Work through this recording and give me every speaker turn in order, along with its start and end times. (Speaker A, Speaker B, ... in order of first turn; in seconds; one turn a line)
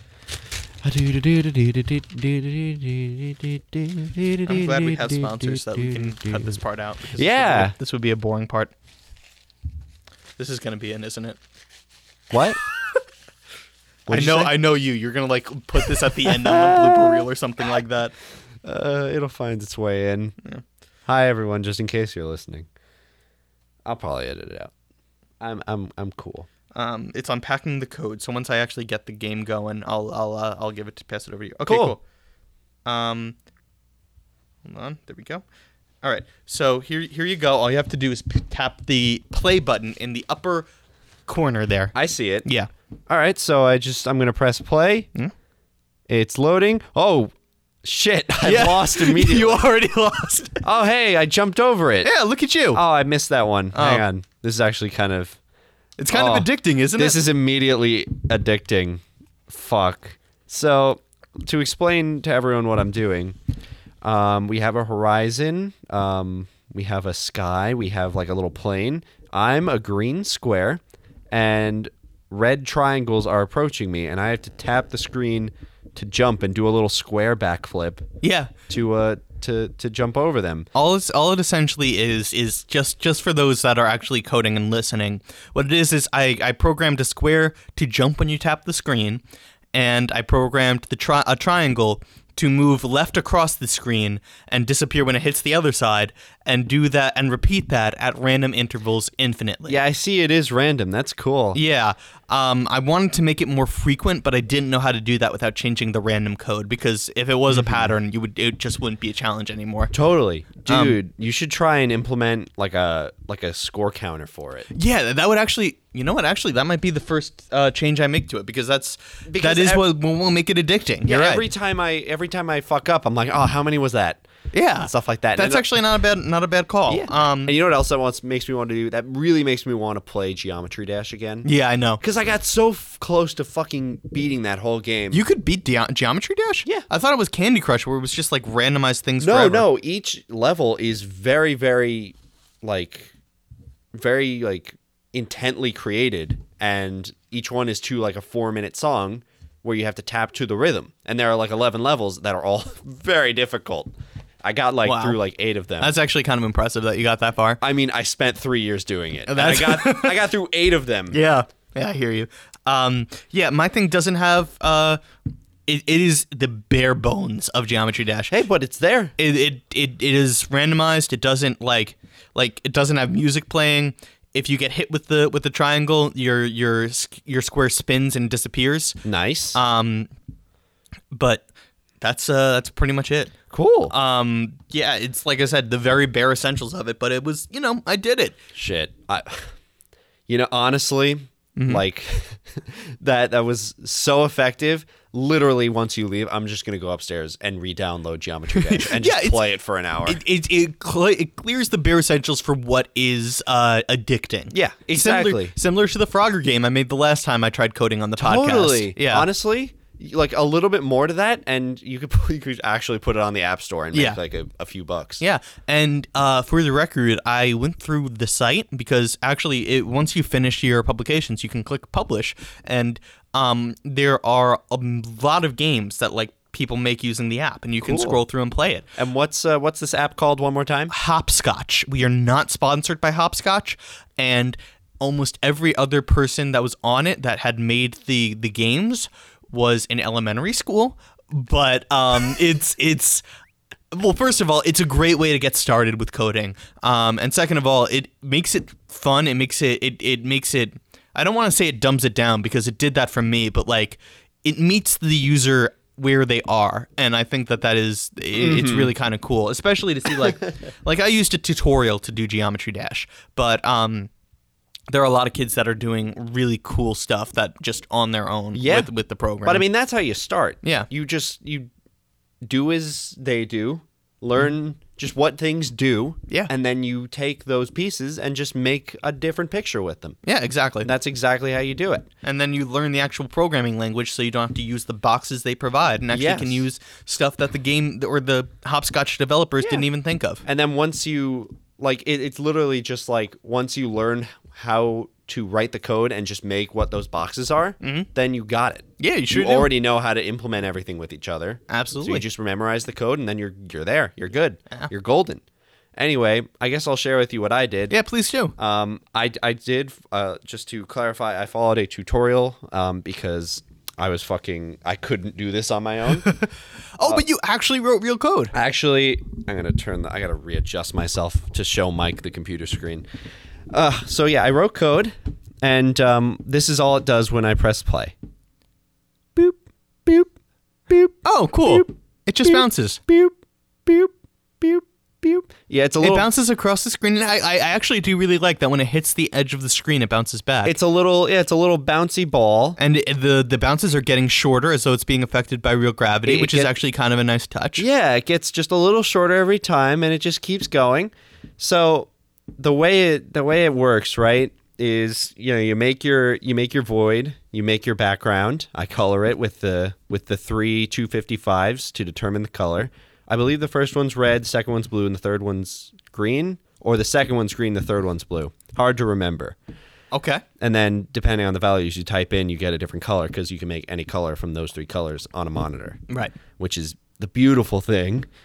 Speaker A: 0.8-6.6
Speaker B: 4.5-8.7
Speaker A: 7.2-7.8
Speaker B: 10.4-11.4
Speaker A: 12.3-12.6
Speaker A: 14.1-14.6
Speaker B: 14.1-18.1
Speaker A: 15.9-17.2
Speaker A: 18.6-20.4
Speaker A: 21.1-22.7
Speaker A: 23.9-24.7
Speaker A: 25.4-26.5
Speaker B: 26.8-32.0
Speaker A: 31.7-31.9
Speaker B: 32.9-33.4
Speaker B: 34.6-35.4
Speaker B: 36.0-40.7
Speaker B: 41.3-42.7
Speaker A: 42.0-42.5
Speaker A: 43.1-45.1
Speaker A: 46.1-47.3
Speaker A: 47.8-49.7
Speaker B: 48.4-50.6
Speaker A: 50.6-52.1
Speaker B: 52.0-52.8
Speaker A: 52.7-55.4
Speaker B: 53.7-54.0
Speaker B: 56.0-57.2
Speaker A: 56.1-63.4
Speaker A: 64.0-78.1
Speaker B: 78.2-78.5
Speaker A: 78.7-80.7
Speaker B: 80.8-89.2
Speaker B: 89.7-99.8
Speaker A: 99.7-101.6
Speaker B: 101.5-109.9
Speaker A: 107.5-107.9
Speaker A: 109.9-114.7
Speaker B: 110.7-111.0
Speaker B: 114.7-121.5
Speaker A: 119.3-119.9
Speaker A: 121.1-124.2
Speaker B: 124.5-127.5
Speaker A: 124.8-125.7
Speaker A: 126.9-131.5
Speaker B: 131.4-132.0
Speaker A: 132.0-135.2
Speaker B: 135.1-139.7
Speaker A: 139.2-143.1
Speaker A: 143.9-153.9
Speaker A: 154.4-155.9
Speaker B: 154.8-155.2
Speaker B: 155.8-157.6
Speaker A: 157.6-161.2
Speaker B: 159.3-160.3
Speaker B: 161.1-165.0
Speaker B: 165.7-168.3
Speaker A: 168.3-169.2
Speaker B: 169.2-179.0
Speaker A: 179.0-179.6
Speaker B: 179.6-180.1
Speaker B: 181.1-181.4
Speaker B: 182.0-183.3
Speaker A: 183.5-183.9
Speaker B: 183.9-188.4
Speaker A: 188.6-189.5
Speaker A: 190.3-200.2
Speaker B: 191.6-191.8
Speaker B: 198.6-199.4
Speaker B: 200.1-209.3
Speaker A: 204.5-205.6
Speaker A: 208.2-215.2
Speaker B: 213.9-214.2
Speaker B: 215.2-228.9
Speaker A: 227.8-228.2
Speaker A: 229.0-230.9
Speaker B: 230.9-243.2
Speaker B: 243.9-264.1
Speaker A: 258.4-258.9
Speaker B: 264.9-269.6
Speaker A: 268.6-268.9
Speaker A: 269.4-271.7
Speaker B: 270.6-270.9
Speaker A: 272.4-280.2
Speaker B: 280.2-280.9
Speaker A: 280.8-282.1
Speaker B: 282.2-290.4
Speaker A: 286.1-286.6
Speaker A: 290.4-305.4
Speaker B: 297.8-298.1
Speaker B: 299.0-299.7
Speaker B: 301.7-302.2
Speaker A: 306.0-308.0
Speaker B: 307.9-308.5
Speaker A: 308.6-316.3
Speaker B: 316.2-318.5
Speaker A: 318.5-323.1
Speaker A: 323.7-328.1
Speaker A: 329.4-330.3
Speaker A: 330.9-333.4
Speaker B: 331.2-333.0
Speaker A: 333.9-336.3
Speaker B: 336.0-340.8
Speaker A: 340.6-342.8
Speaker B: 342.8-347.9
Speaker A: 346.2-346.7
Speaker A: 347.8-369.6
Speaker B: 370.1-370.4
Speaker A: 370.6-376.0
Speaker B: 376.1-376.4
Speaker A: 376.6-378.3